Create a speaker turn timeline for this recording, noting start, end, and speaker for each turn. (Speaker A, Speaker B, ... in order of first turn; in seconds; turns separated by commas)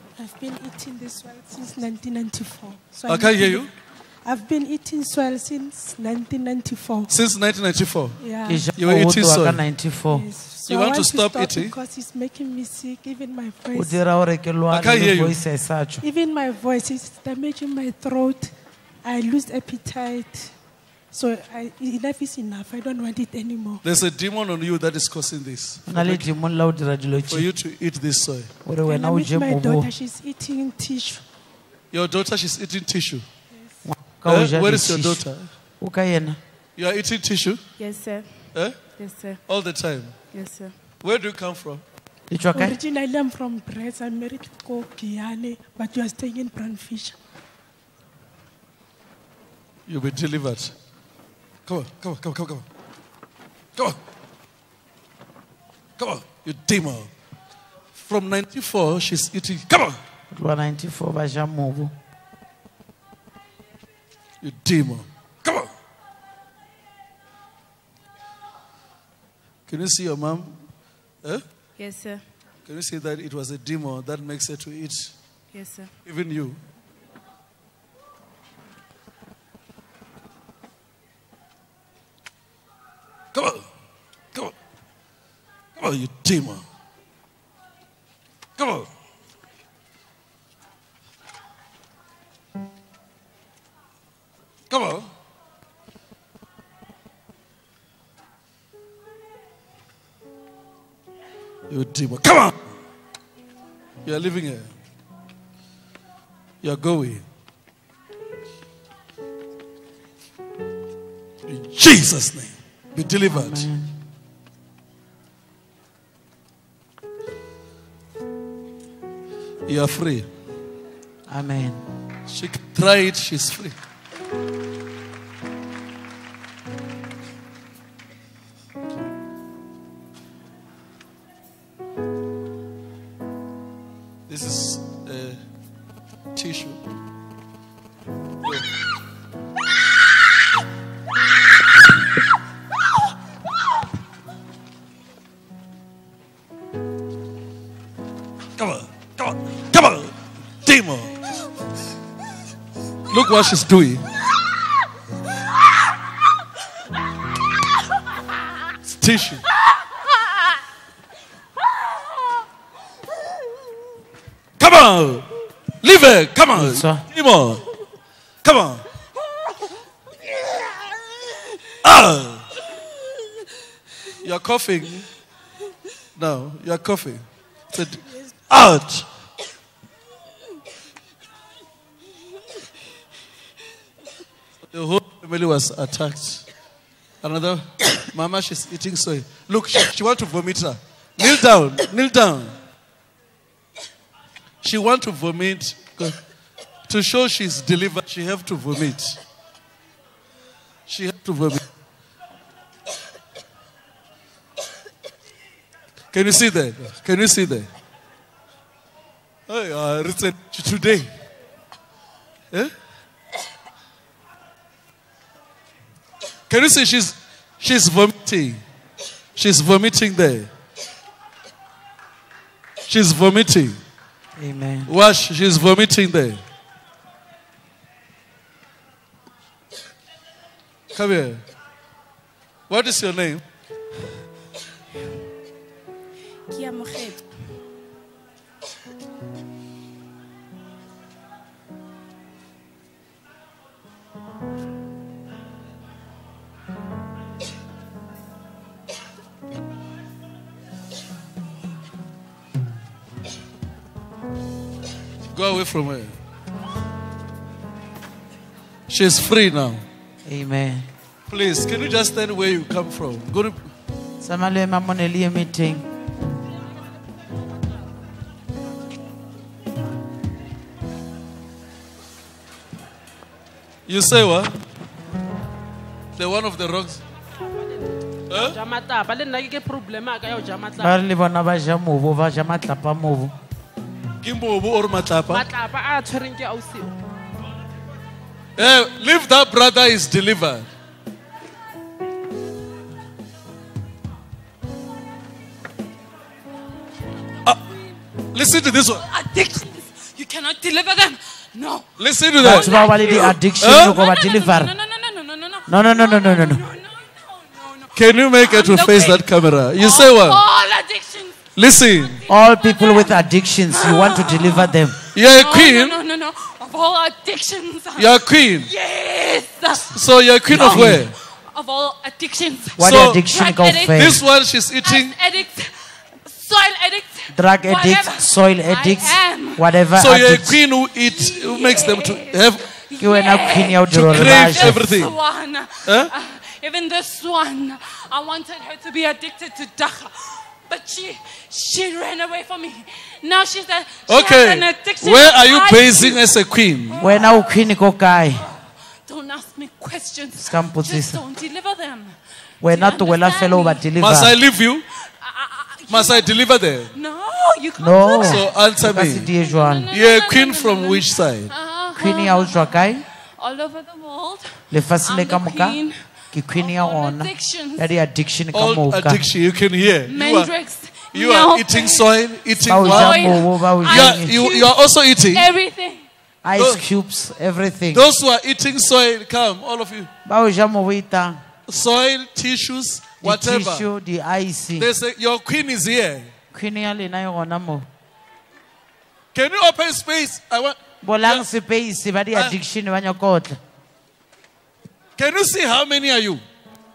Speaker A: 0.2-3.7, Speaker B: 3.0-3.7, Speaker A: 4.2-7.1, Speaker B: 7.1-8.2, Speaker A: 8.2-8.7, Speaker C: 8.4-10.3, Speaker B: 8.7-9.6, Speaker A: 10.1-14.0, Speaker B: 10.7-11.8, Speaker C: 13.7-16.0, Speaker B: 14.7-15.4, Speaker A: 16.0-20.6, Speaker A: 21.1-23.8, Speaker B: 23.8-26.3, Speaker C: 25.9-27.5, Speaker B: 27.3-28.5, Speaker C: 28.6-29.9, Speaker A: 28.8-31.2, Speaker B: 31.9-33.2, Speaker C: 33.8-35.2, Speaker B: 34.2-35.5, Speaker C: 35.8-36.4, Speaker B: 36.8-37.6, Speaker D: 37.8-39.4, Speaker B: 39.5-40.1, Speaker D: 40.3-40.7, Speaker B: 41.0-41.8, Speaker C: 42.3-42.8, Speaker A: 42.5-47.2, Speaker B: 49.9-50.7, Speaker B: 51.6-52.6, Speaker B: 56.0-57.1, Speaker B: 57.9-60.0, Speaker C: 60.3-61.9, Speaker B: 64.4-65.7, Speaker B: 69.7-70.6, Speaker D: 71.8-72.2, Speaker B: 72.6-75.2, Speaker D: 75.5-75.9, Speaker B: 76.0-76.6, Speaker B: 83.3-83.7, Speaker B: 85.8-86.6, Speaker B: 88.6-88.9, Speaker B: 94.7-95.1, Speaker B: 101.7-102.5, Speaker B: 104.0-104.7, Speaker B: 106.6-107.2, Speaker B: 111.5-113.7, Speaker C: 113.3-113.9, Speaker B: 119.7-120.3, Speaker C: 121.3-121.8, Speaker B: 122.3-123.8, Speaker B: 134.3-135.4, Speaker B: 136.3-136.8, Speaker B: 148.6-151.2, Speaker B: 153.1-154.1, Speaker B: 158.8-159.4, Speaker B: 164.6-165.3, Speaker B: 165.8-167.6, Speaker C: 166.5-167.1, Speaker B: 168.4-168.8, Speaker B: 171.8-172.5, Speaker B: 174.2-175.1, Speaker B: 176.2-179.1, Speaker B: 184.7-186.5, Speaker B: 187.2-192.6, Speaker B: 194.6-196.2, Speaker B: 196.9-199.2, Speaker B: 200.9-201.6, Speaker B: 206.1-207.7, Speaker B: 209.5-211.1, Speaker B: 216.5-218.6, Speaker B: 219.3-220.5, Speaker B: 222.9-223.8, Speaker C: 224.4-224.9, Speaker B: 224.9-226.4, Speaker B: 230.9-231.4, Speaker B: 232.7-233.4, Speaker D: 236.5-237.3, Speaker B: 255.3-256.2, Speaker B: 258.9-259.8, Speaker C: 260.2-260.9, Speaker B: 261.3-263.7, Speaker C: 264.2-265.8, Speaker B: 273.9-274.6, Speaker B: 276.1-277.0, Speaker B: 278.3-278.6, Speaker E: 278.4-280.9, Speaker C: 280.8-283.3, Speaker B: 284.2-285.5, Speaker E: 285.3-286.9, Speaker B: 288.6-290.7, Speaker B: 298.3-299.1, Speaker D: 298.9-311.5, Speaker B: 302.0-302.7, Speaker C: 302.4-304.7, Speaker B: 303.6-304.0, Speaker C: 305.7-306.6, Speaker B: 307.9-310.4, Speaker B: 311.6-312.2, Speaker D: 312.1-320.0, Speaker C: 312.3-315.0, Speaker B: 315.1-316.0, Speaker B: 317.9-318.7, Speaker B: 319.9-321.1, Speaker C: 320.5-321.0, Speaker D: 320.5-324.1, Speaker C: 322.8-324.2, Speaker B: 322.8-323.2, Speaker B: 323.9-325.1, Speaker D: 324.8-329.8, Speaker C: 327.3-330.6, Speaker B: 329.9-332.7, Speaker D: 331.1-346.3, Speaker C: 333.0-334.8, Speaker B: 333.9-335.1, Speaker B: 335.8-336.1, Speaker B: 344.1-347.0, Speaker D: 346.9-347.5, Speaker C: 347.0-348.4, Speaker D: 349.1-353.9, Speaker C: 350.4-351.2, Speaker C: 352.6-354.4, Speaker B: 354.0-354.8, Speaker D: 355.2-356.3, Speaker B: 355.9-356.9, Speaker D: 356.9-358.6, Speaker C: 357.8-359.9, Speaker B: 358.2-359.3, Speaker D: 359.4-365.9, Speaker B: 359.9-361.5, Speaker C: 361.9-363.0, Speaker C: 364.7-365.8, Speaker C: 366.3-369.2, Speaker D: 366.5-367.9, Speaker B: 368.5-370.5, Speaker D: 370.1-372.1, Speaker B: 371.1-375.5, Speaker C: 372.6-374.3, Speaker D: 372.7-376.1, Speaker C: 376.4-378.1, Speaker B: 376.6-376.8, Speaker B: 377.9-380.1, Speaker C: 380.2-381.4, Speaker B: 381.7-383.9, Speaker C: 383.2-384.9, Speaker B: 384.8-386.3, Speaker C: 386.5-387.9, Speaker B: 389.3-391.5, Speaker C: 391.0-393.6, Speaker B: 392.3-392.6, Speaker B: 395.2-396.4